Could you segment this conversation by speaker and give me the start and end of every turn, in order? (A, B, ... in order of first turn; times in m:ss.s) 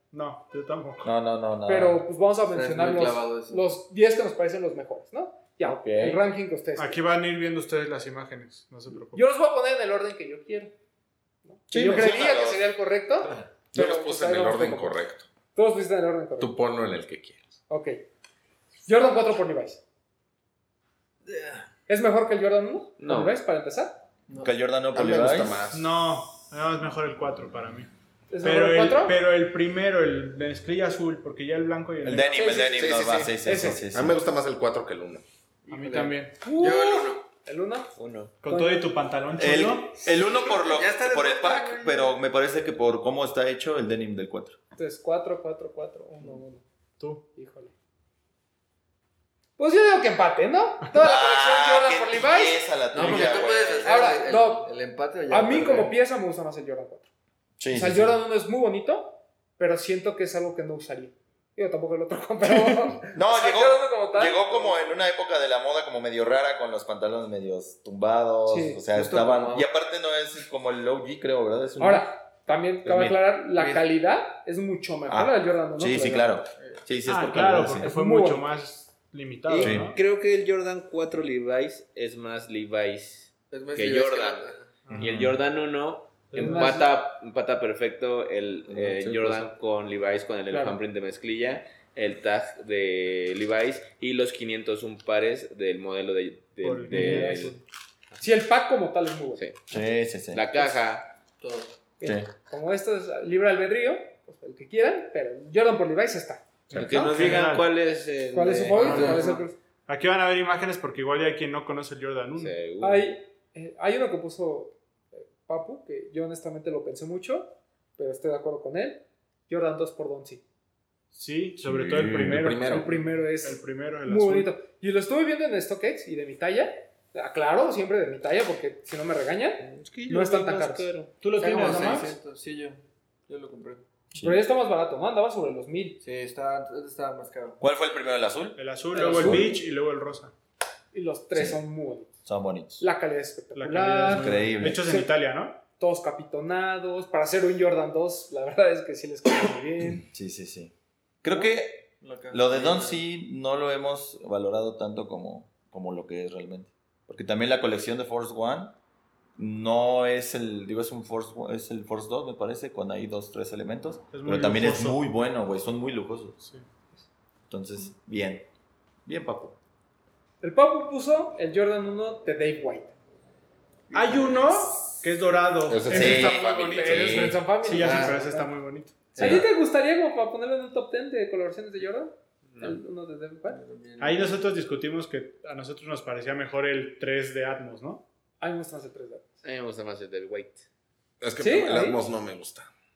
0:00.1-0:01.1 A
0:01.0-0:02.0 B
0:01.7-0:07.0 C
0:02.5-0:03.6 D
0:05.6-0:06.2 B
0:06.8-0:09.2 A
0:09.1-0:10.7 C
0:11.4-0:15.0 C
0:11.7-0:12.6 B
0:13.7-0:15.3 E
0:15.5-0:16.5 C
0:16.4-0:17.5 E
0:17.7-0:18.0 C
0:18.8-0:19.8 C
0:21.2-0:21.7 D
0:21.9-0:24.0 C
0:23.0-0:23.4 F
0:24.3-0:24.5 D
0:24.4-0:25.6 B
0:24.9-0:26.0 E
0:25.7-0:27.9 A
0:28.3-0:29.2 C
0:28.4-0:32.7 A
0:32.0-0:34.2 B
0:32.3-0:33.8 C
0:32.5-0:35.2 E
0:35.6-0:37.2 D
0:35.7-0:36.5 A
0:36.4-0:37.9 C
0:38.0-0:38.3 F
0:38.4-0:40.0 A
0:38.5-0:38.9 C
0:39.4-0:44.6 B
0:40.0-0:42.2 D
0:44.8-0:46.6 C
0:47.0-0:47.2 A
0:47.3-0:47.7 C
0:49.6-0:52.6 C
0:50.9-0:54.0 B
0:52.9-0:55.9 D
0:53.8-0:54.7 C
0:55.3-0:57.1 C
0:57.6-0:58.2 B
0:57.7-1:04.9 C
1:03.1-1:12.1 B
1:08.4-1:08.8 C
1:08.9-1:09.7 D
1:11.8-1:16.4 C
1:12.8-1:13.2 B
1:13.6-1:13.8 D
1:15.1-1:17.9 B
1:16.6-1:16.8 D
1:17.0-1:20.0 A
1:17.8-1:18.5 C
1:19.5-1:37.5 F
1:19.6-1:19.9 B
1:23.5-1:24.7 D
1:24.8-1:25.3 A
1:25.0-1:25.3 B
1:26.3-1:26.8 A
1:26.4-1:26.9 C
1:28.9-1:29.5 E
1:30.5-1:30.8 C
1:36.6-1:37.6 A
1:36.9-1:37.6 C
1:38.2-1:39.4 C
1:39.7-1:40.4 B
1:40.3-1:41.1 F
1:41.4-1:41.8 D
1:42.0-1:47.4 C
1:42.0-1:42.3 B
1:46.7-1:47.7 A
1:46.7-1:49.3 F
1:48.3-1:49.6 C
1:48.7-1:49.4 D
1:48.9-1:49.2 A
1:49.9-1:52.6 A
1:52.4-1:53.1 F
1:52.8-2:00.4 C
2:01.1-2:04.5 A
2:01.6-2:02.4 B
2:02.0-2:03.0 E
2:02.7-2:10.9 C
2:09.6-2:11.1 F
2:11.2-2:12.2 A
2:11.3-2:13.8 D
2:14.1-2:14.4 B
2:14.2-2:16.0 C
2:16.0-2:17.6 D
2:17.6-2:19.5 B
2:18.6-2:20.3 A
2:18.9-2:19.3 C
2:19.0-2:19.5 D
2:20.9-2:22.1 C
2:22.2-2:22.8 B
2:22.8-2:25.1 C
2:23.5-2:25.6 A
2:24.1-2:24.8 B
2:25.8-2:30.0 C
2:30.0-2:38.8 B
2:32.0-2:33.0 D
2:39.4-2:46.4 B
2:44.1-2:45.0 A
2:46.4-2:46.6 A
2:47.5-2:48.5 B
2:49.0-2:49.6 B
2:50.4-2:52.9 C
2:53.9-2:54.6 D
2:53.9-2:59.3 A
2:55.6-2:57.4 E
2:55.9-2:56.4 B
2:55.9-2:58.5 C
2:57.8-2:58.2 D
2:59.1-3:03.6 C
3:02.5-3:02.8 F
3:03.5-3:04.4 D
3:04.0-3:08.0 A
3:08.4-3:09.3 C
3:09.4-3:10.7 F
3:11.2-3:12.7 E
3:11.4-3:12.0 C